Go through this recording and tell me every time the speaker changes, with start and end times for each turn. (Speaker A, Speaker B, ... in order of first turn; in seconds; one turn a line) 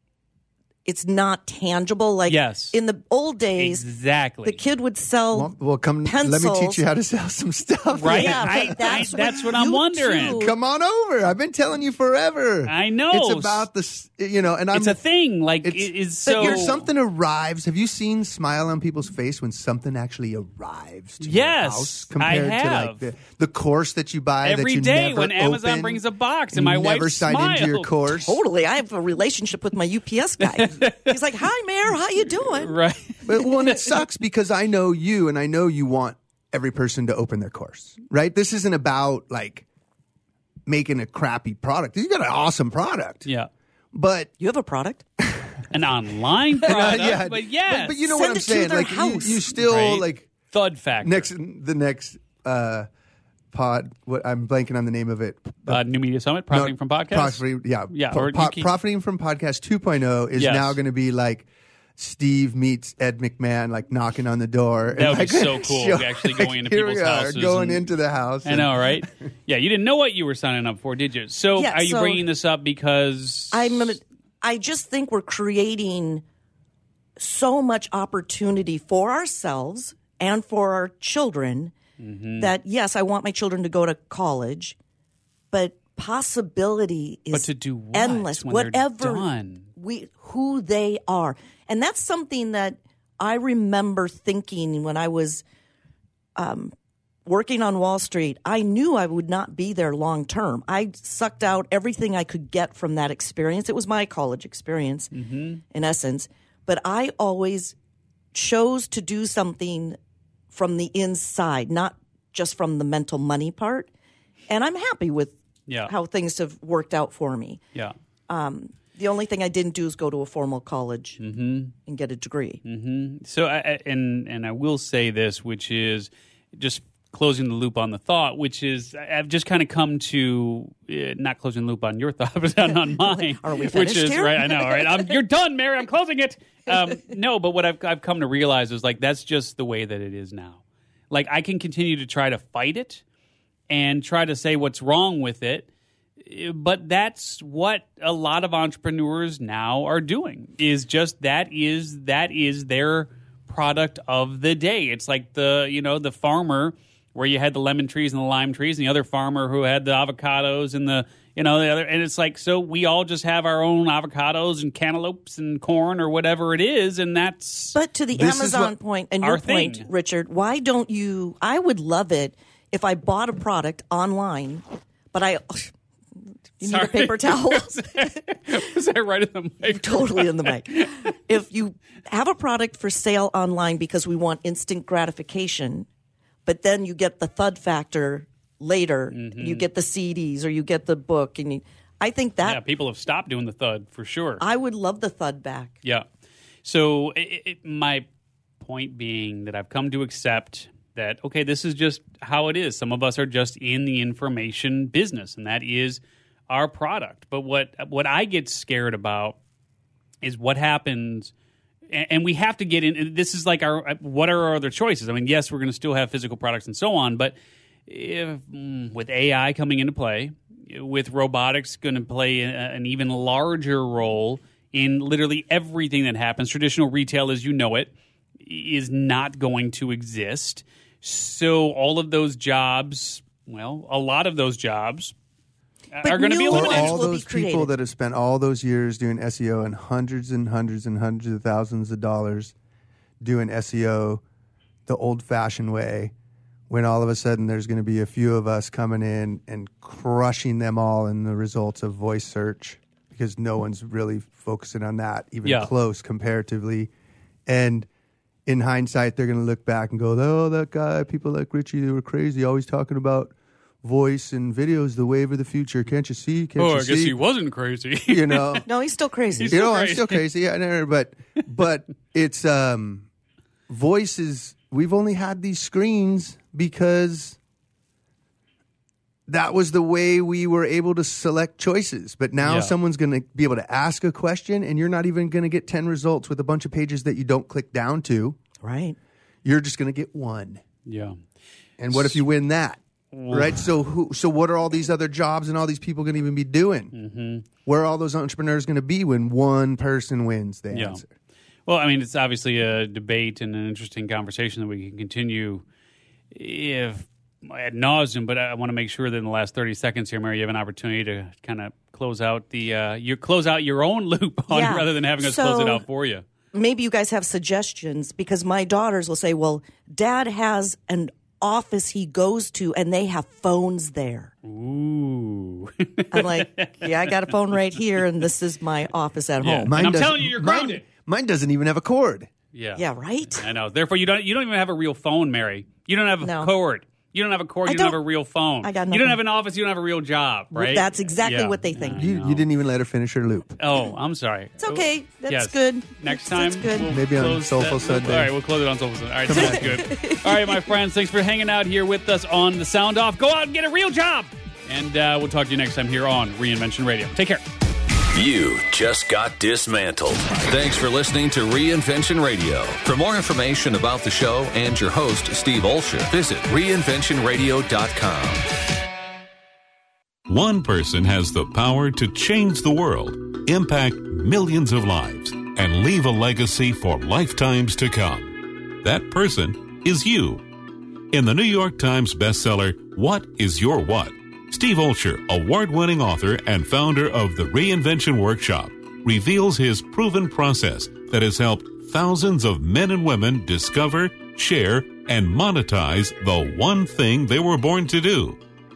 Speaker A: 0.8-3.9
Speaker B: 2.3-2.8
Speaker B: 3.6-4.6
Speaker A: 4.5-5.5
Speaker C: 5.3-9.3
Speaker A: 6.0-6.9
Speaker A: 8.0-10.6
Speaker B: 8.0-10.4
Speaker C: 10.1-15.0
Speaker B: 12.7-13.7
Speaker B: 14.7-16.9
Speaker C: 15.6-28.4
Speaker A: 16.3-16.7
Speaker B: 21.2-23.1
Speaker B: 24.4-28.3
Speaker A: 28.3-32.8
Speaker B: 30.4-31.1
Speaker B: 32.6-33.9
Speaker C: 33.2-39.6
Speaker C: 40.7-43.3
Speaker C: 43.9-44.3
Speaker A: 44.4-45.0
Speaker B: 45.7-48.1
Speaker C: 46.6-50.3
Speaker A: 48.1-49.5
Speaker B: 49.6-51.3
Speaker C: 51.0-52.9
Speaker C: 53.5-55.8
Speaker B: 55.7-58.7
Speaker C: 56.5-69.1
Speaker B: 60.4-60.8
Speaker B: 64.9-67.9
Speaker B: 68.4-73.9
Speaker A: 71.5-72.3
Speaker A: 73.5-76.2
Speaker A: 77.2-81.7
Speaker B: 82.0-82.5
Speaker A: 82.4-84.8
Speaker A: 85.5-95.4
Speaker B: 87.3-89.7
Speaker A: 96.4-96.7
Speaker A: 97.3-105.1
Speaker B: 105.1-105.6
Speaker A: 105.7-107.8
Speaker A: 108.3-110.0
Speaker A: 110.5-113.9
Speaker A: 114.5-117.6
Speaker A: 118.3-121.2
Speaker B: 121.2-121.7
Speaker A: 121.9-122.6
Speaker B: 122.7-143.0
Speaker A: 132.8-135.0
Speaker B: 143.7-145.7
Speaker B: 146.2-167.8
Speaker A: 167.8-175.7
Speaker C: 168.1-168.8
Speaker B: 169.2-169.9
Speaker A: 176.6-177.8
Speaker B: 176.6-181.1
Speaker A: 179.7-185.9
Speaker A: 186.5-192.6
Speaker B: 189.1-189.7
Speaker B: 192.4-194.4
Speaker A: 194.4-195.8
Speaker B: 196.6-198.1
Speaker B: 198.6-209.4
Speaker B: 210.2-211.3
Speaker B: 211.9-235.1
Speaker B: 235.9-237.0
Speaker A: 236.0-237.7
Speaker C: 236.5-242.5
Speaker C: 243.2-244.2
Speaker C: 244.9-246.1
Speaker C: 246.7-256.9
Speaker B: 255.4-255.7
Speaker C: 257.5-257.9
Speaker C: 258.5-267.2
Speaker B: 266.6-268.6
Speaker C: 268.1-268.7
Speaker A: 268.7-269.6
Speaker B: 269.4-270.2
Speaker C: 269.4-273.1
Speaker C: 273.7-277.4
Speaker C: 279.3-288.4
Speaker B: 282.4-282.7
Speaker A: 288.6-289.0
Speaker C: 289.4-290.6
Speaker B: 290.9-291.2
Speaker C: 291.8-296.9
Speaker B: 291.9-292.2
Speaker B: 293.1-293.6
Speaker B: 296.9-297.4
Speaker C: 297.7-301.1
Speaker B: 300.7-301.0
Speaker B: 301.7-305.6
Speaker B: 306.3-316.2
Speaker A: 314.5-315.8
Speaker A: 316.5-324.3
Speaker B: 324.4-327.2
Speaker A: 326.1-329.7
Speaker B: 329.4-330.9
Speaker C: 329.5-332.3
Speaker B: 332.5-342.5
Speaker A: 332.8-333.5
Speaker A: 336.2-336.5
Speaker A: 337.7-338.0
Speaker A: 338.6-339.2
Speaker A: 340.5-342.1
Speaker C: 342.0-343.6
Speaker B: 343.6-357.4
Speaker A: 344.6-346.9
Speaker C: 346.9-348.3
Speaker C: 349.3-349.8
Speaker A: 349.3-350.6
Speaker D: 358.1-368.4
Speaker E: 370.3-380.4
Speaker E: 381.1-398.4